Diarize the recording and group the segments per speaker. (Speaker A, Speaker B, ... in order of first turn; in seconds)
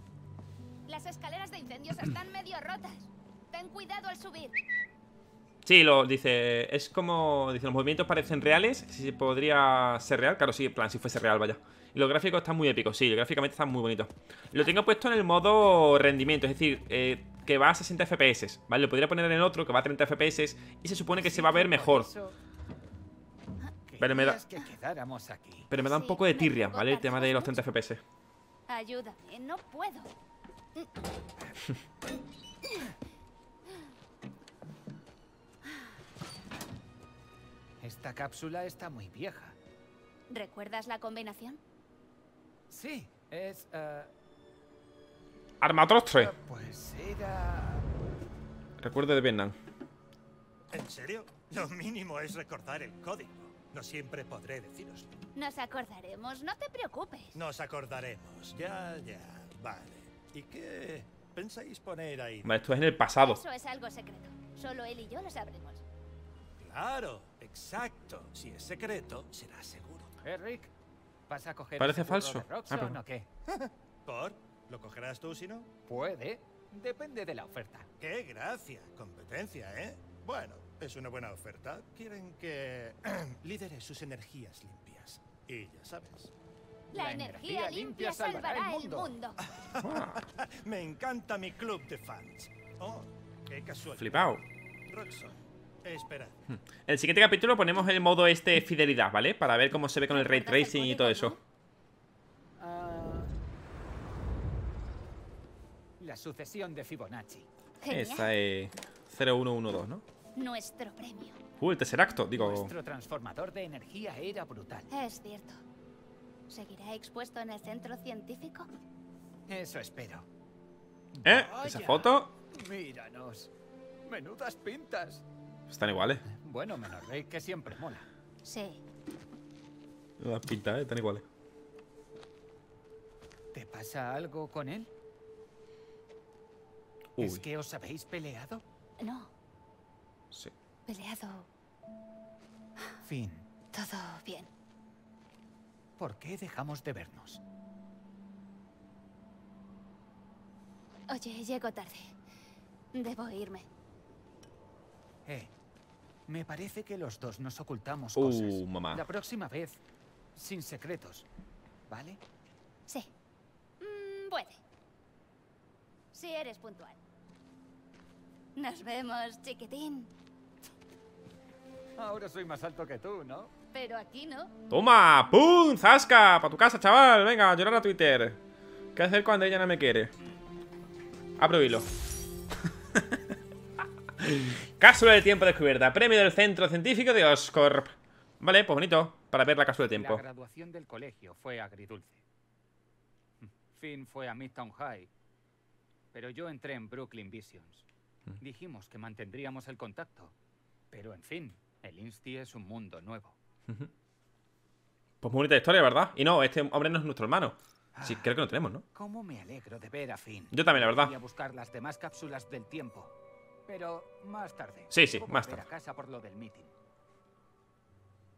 Speaker A: 0.9-4.6, 25.8-27.6, 28.7-30.1, 40.3-41.6, 55.4-57.4, 63.2-65.8, 86.9-89.4, 100.1-101.4, 107.8-108.3, 110.4-111.4, 114.9-115.6, 116.5-118.7, 128.4-128.8, 139.0-139.3, 140.9-141.5, 143.7-144.5, 151.1-152.1, 152.9-153.7, 163.8-164.6, 166.1-167.0, 168.6-170.1, 173.7-174.5
Speaker B: 5.6-22.1, 24.0-24.4, 25.7-28.0, 45.6-46.3, 48.8-49.6, 62.5-63.4, 71.8-73.0, 89.8-90.2, 94.0-94.4, 96.5-101.4, 107.9-110.0, 111.6-112.7, 121.2-122.3, 125.7-126.2, 130.2-131.2, 137.2-137.4, 158.2-159.1, 174.7-178.4, 178.9-180.1, 181.4-181.9, 182.9-183.3, 184.2-190.2, 205.2-208.8, 210.5-211.1, 214.9-215.6
Speaker C: 21.1-22.4, 23.9-25.7, 37.8-39.6, 42.7-44.1, 46.1-47.9, 70.2-70.7, 71.3-73.3, 75.9-77.9, 86.9-89.2, 102.6-103.3, 106.0-107.5, 112.4-114.9, 119.5-120.3, 121.1-123.5, 124.1-125.2, 126.3-128.1, 133.5-134.9, 137.2-138.6, 143.0-143.5, 146.0-147.4, 155.3-155.5, 156.3-159.8, 160.3-161.3, 161.9-162.2, 172.0-173.5, 189.9-192.2, 193.4-195.1, 196.1-197.9, 198.4-200.3, 200.9-203.4, 207.9-208.3, 208.9-213.1, 213.7-216.7
Speaker D: 50.7-55.1, 57.3-62.5, 66.6-70.1, 73.6-75.7, 78.0-86.3, 89.5-96.4